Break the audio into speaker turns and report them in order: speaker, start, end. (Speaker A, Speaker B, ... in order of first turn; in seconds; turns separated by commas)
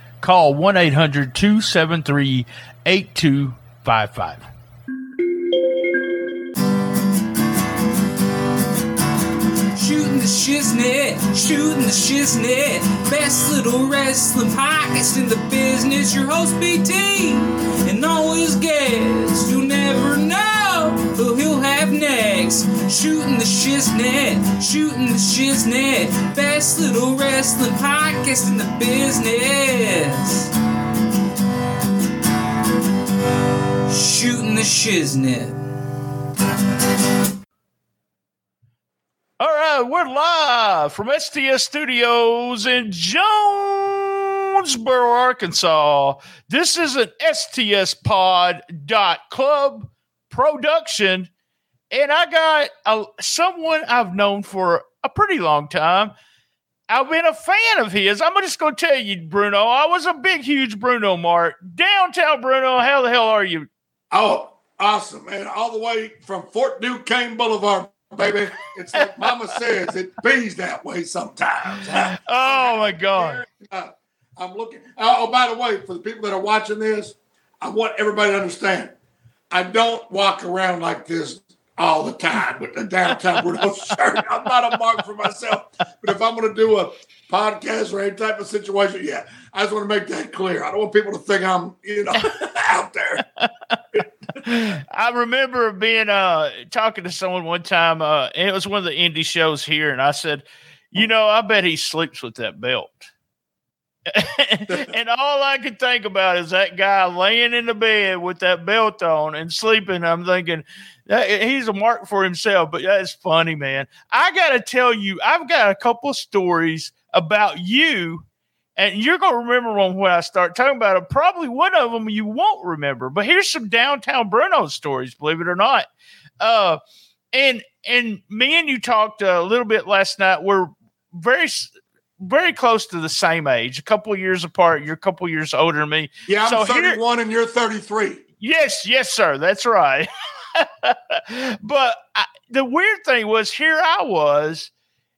Speaker A: 0.2-4.5, Speaker B: 9.7-30.5, Speaker B: 33.9-35.5, Speaker A: 39.4-51.3, Speaker A: 51.9-56.1, Speaker A: 56.9-63.7, Speaker C: 64.1-78.9, Speaker A: 69.0-69.3, Speaker A: 71.8-73.4, Speaker C: 79.5-93.2, Speaker A: 94.4-103.1, Speaker A: 104.1-118.2, Speaker A: 118.8-125.9, Speaker A: 126.4-126.8, Speaker A: 127.3-137.0, Speaker C: 136.3-138.2, Speaker A: 138.4-144.7